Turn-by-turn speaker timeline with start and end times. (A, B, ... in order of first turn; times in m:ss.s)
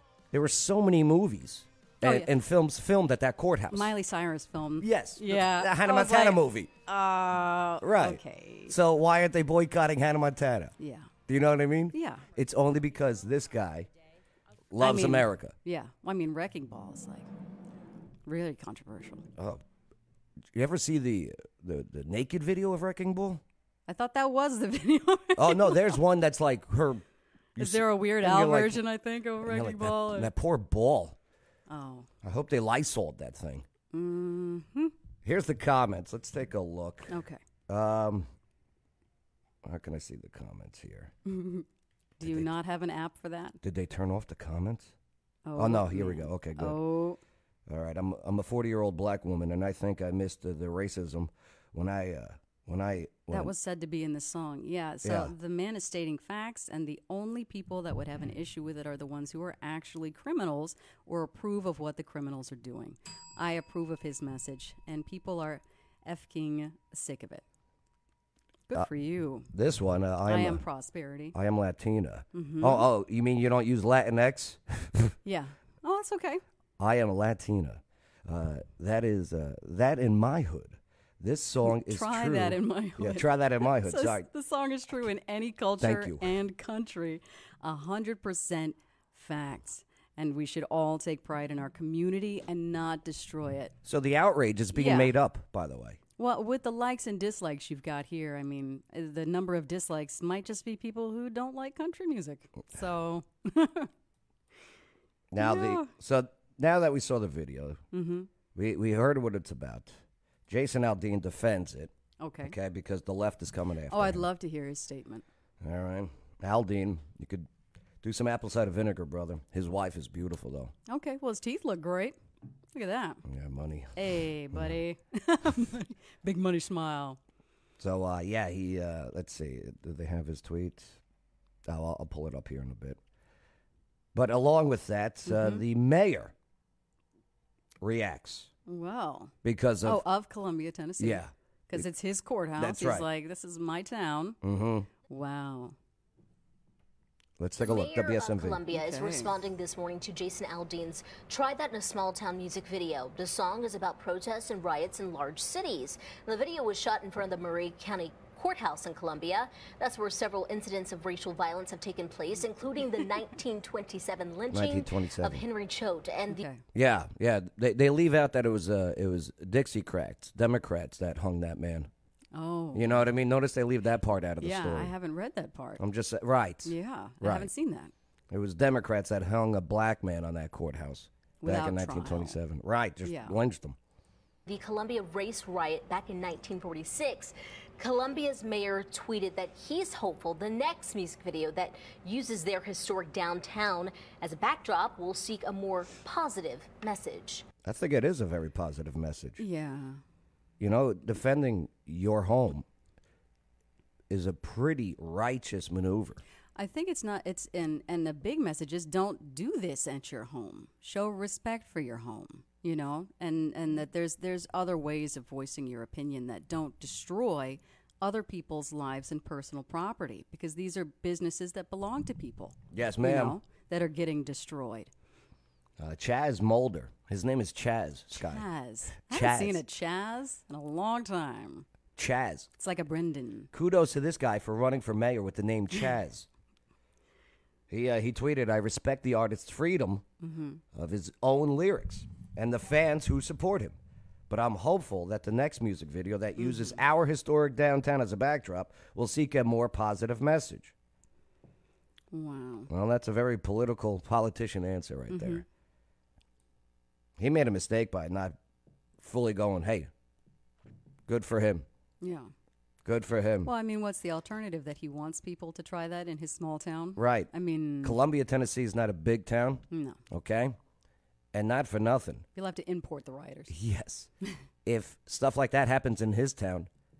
0:00.3-0:03.9 A
0:02.0-0:02.3 B
0:03.7-0:08.8 B
0:04.8-0:06.7 A
0:07.8-0:10.7 A
0:10.8-0:11.1 B
0:11.3-0:13.9 A
0:11.9-0:12.3 B
0:14.7-0:15.5 A
0:14.8-0:17.3 B
0:18.2-0:19.2 B
0:19.4-0:19.6 A
0:20.5-0:23.4 A
0:23.9-0:26.0 B
0:25.4-0:27.0 A
0:27.6-0:28.8 A
0:27.6-0:30.3 B
0:29.4-0:31.2 A
0:31.7-0:32.1 B
0:32.2-0:33.6 A
0:33.9-0:34.9 B
0:35.2-0:37.1 A
0:37.1-0:37.4 B
0:37.7-0:38.3 A
0:39.6-0:41.1 A
0:41.2-0:41.6 B
0:42.2-0:43.6 B
0:42.2-0:42.5 A
0:43.6-0:44.9 A
0:45.4-0:47.2 B
0:45.6-0:46.8 A
0:47.7-0:53.5 A
0:53.3-1:07.4 B
0:55.0-0:55.3 A
1:08.7-1:09.5 B
1:09.5-1:10.6 A
1:10.2-1:11.4 B
1:11.3-1:15.1 A
1:12.3-1:12.9 B
1:15.2-1:16.4 B
1:16.8-1:24.3 A
1:21.6-1:33.7 B
1:25.8-1:26.4 A
1:33.8-1:36.0 A
1:34.7-1:35.1 B
1:36.2-1:43.9 B
1:45.3-1:47.8 A
1:45.4-1:45.9 B
1:47.9-1:48.3 B
1:48.5-1:49.9 A
1:50.5-1:51.9 A
1:52.2-1:52.5 B
1:52.4-1:54.3 A
1:53.9-1:55.2 B
1:55.6-1:57.5 A
1:58.0-2:00.7 A
2:00.9-2:02.2 B
2:02.7-2:03.2 B
2:03.2-2:04.8 A
2:04.0-2:07.2 B
2:07.8-2:11.0 A
2:11.6-2:13.0 A
2:14.1-2:16.3 A
2:15.2-2:15.6 B
2:17.8-2:18.5 A
2:18.7-2:24.4 B
2:19.4-2:20.0 A
2:21.0-2:21.9 A
2:22.6-2:23.1 A
2:24.4-2:24.9 A
2:25.1-2:25.7 B
2:27.4-2:28.6 A
2:27.6-2:46.4 C
2:28.7-2:29.3 B
2:44.5-2:45.4 A
2:46.3-2:46.6 B
2:46.7-2:51.9 A
2:52.3-2:53.1 B
2:52.7-2:54.9 A
2:54.4-2:55.8 B
2:55.8-2:57.5 A
2:56.6-2:57.9 B
2:58.3-3:03.8 A
3:01.4-3:02.4 B
3:03.0-3:03.4 B
3:04.4-3:17.5 C
3:17.6-3:19.4 A
3:19.4-3:20.0 B
3:20.6-3:22.6 A
3:24.1-3:26.2 A
3:26.6-3:44.9 B
3:42.7-3:43.4 A
3:45.8-3:48.4 A
3:48.1-3:51.6 B
3:49.0-3:49.6 A
3:52.0-3:52.5 A
3:52.6-3:53.5 B
3:53.5-3:56.3 A
3:57.7-4:00.0 A
4:00.2-4:00.6 B
4:00.7-4:03.8 A
4:04.3-4:10.7 A
4:06.4-4:06.7 B
4:12.1-4:12.7 B
4:12.7-4:15.4 A
4:15.1-4:15.4 B
4:17.2-4:18.4 A
4:19.0-4:19.9 A
4:21.1-4:21.6 A
4:22.0-4:22.3 B
4:22.8-4:23.5 A
4:23.4-4:28.0 B
4:27.0-4:27.3 A
4:27.8-4:30.6 A
4:29.7-4:30.0 B
4:31.3-4:32.2 A
4:32.3-4:33.5 B
4:33.5-4:34.1 A
4:34.6-4:36.7 A